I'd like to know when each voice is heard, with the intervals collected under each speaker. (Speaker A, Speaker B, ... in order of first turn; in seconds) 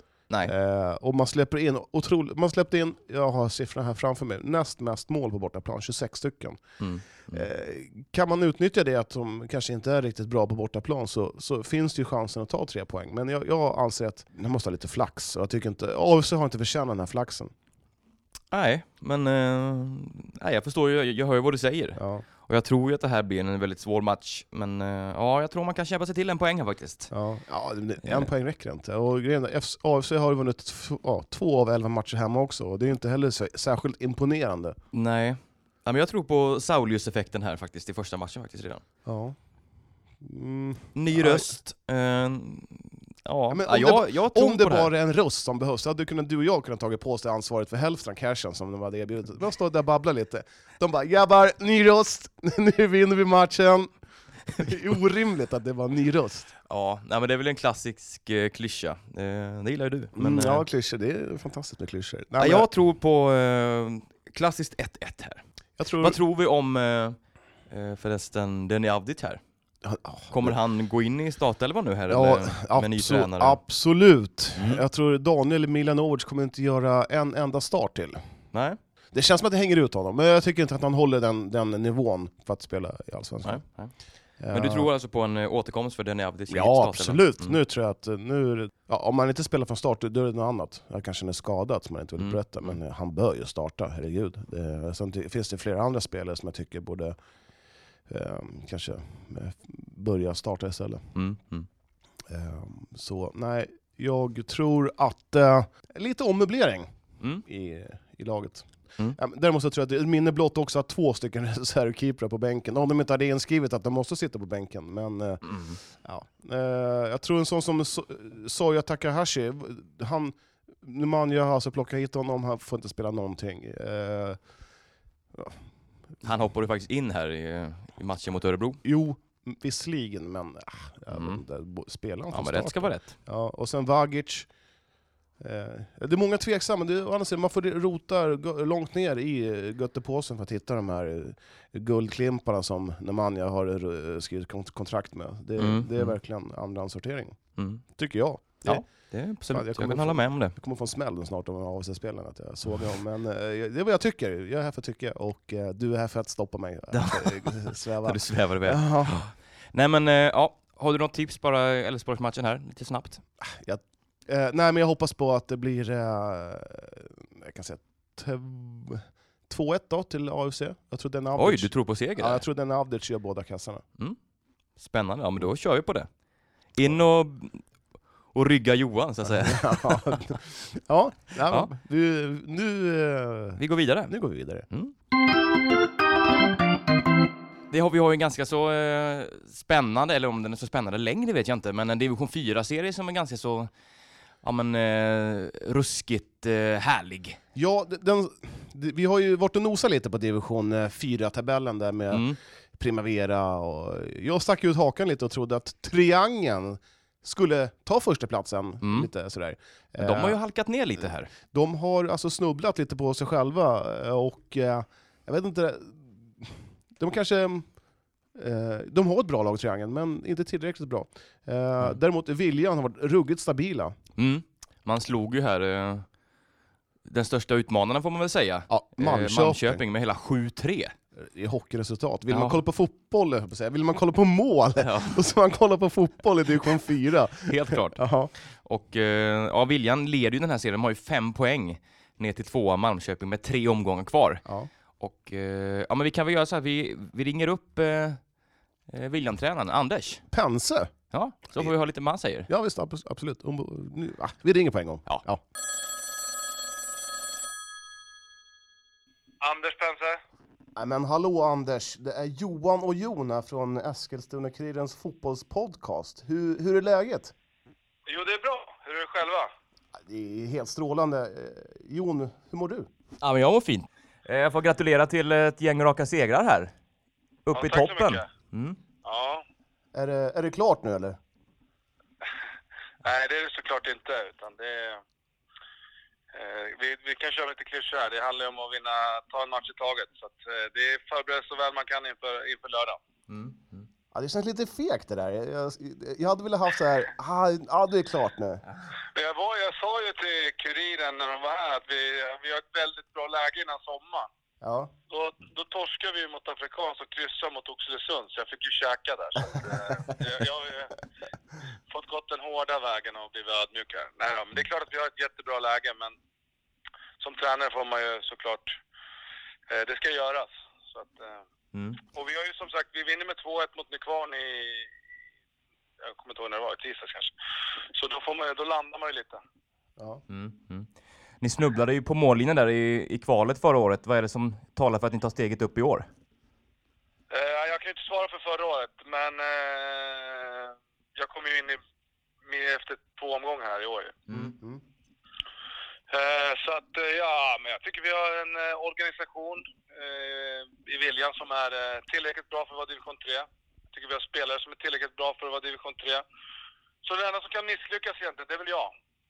Speaker A: 0.5-6.6, 7.3-17.5, 22.0-22.2, 27.1-34.8, 39.0-39.4, 40.2-41.5, 43.5-53.9, 54.5-56.5, 60.1-62.7, 65.8-66.2, 69.8-70.5, 72.1-78.2, 79.1-83.6, 84.4-84.9, 86.5-97.2, 98.1-101.0, 102.3-106.9, 107.4-124.4, 128.8-134.5, 135.4-147.4, 147.9-148.9, 149.5-159.2, 163.4-173.8, 179.3-184.7, 197.5-210.4, 211.4-217.7, 218.3-223.9, 228.7-229.8, 231.2-238.3, 250.3-250.9, 252.5-255.4, 260.8-267.3, 270.0-272.9, 279.9-281.2, 294.1-298.6, 304.6-304.9, 344.3-344.8
Speaker B: 6.8-7.5, 18.5-27.1, 28.0-28.3, 34.9-38.8, 40.9-44.9, 56.7-60.6, 62.4-65.4, 66.0-67.2, 67.7-69.4, 70.3-73.6, 74.5-74.8, 78.5-78.8, 83.4-83.9, 84.5-87.6, 92.2-92.7, 101.1-101.7, 115.4-115.8, 126.2-128.8, 131.1-131.4, 132.3-133.1, 145.6-146.1, 147.6-147.8, 148.6-150.5, 156.9-163.2, 171.3-172.4, 174.8-176.1, 176.7-177.6, 178.3-180.2, 183.6-184.1, 187.7-193.7, 194.4-197.4, 202.1-202.4, 208.8-209.1, 210.0-211.3, 224.2-226.1, 227.1-230.9, 232.3-232.6, 234.8-235.2, 237.4-244.4, 245.0-248.2, 248.9-250.2, 251.1-252.5, 273.2-276.7, 277.4-278.8, 293.3-293.9, 321.7-322.0, 330.3-330.9, 331.4-336.1
Speaker C: 259.4-260.2, 268.1-269.5, 277.5-278.2, 279.0-279.4, 283.0-285.0, 286.3-293.0, 299.1-304.3, 305.1-310.9, 311.9-316.1, 317.2-318.8, 319.7-321.4, 322.0-324.9, 326.0-327.3, 327.9-329.4, 337.3-341.8, 342.4-344.1, 346.1-356.2, 357.0-358.9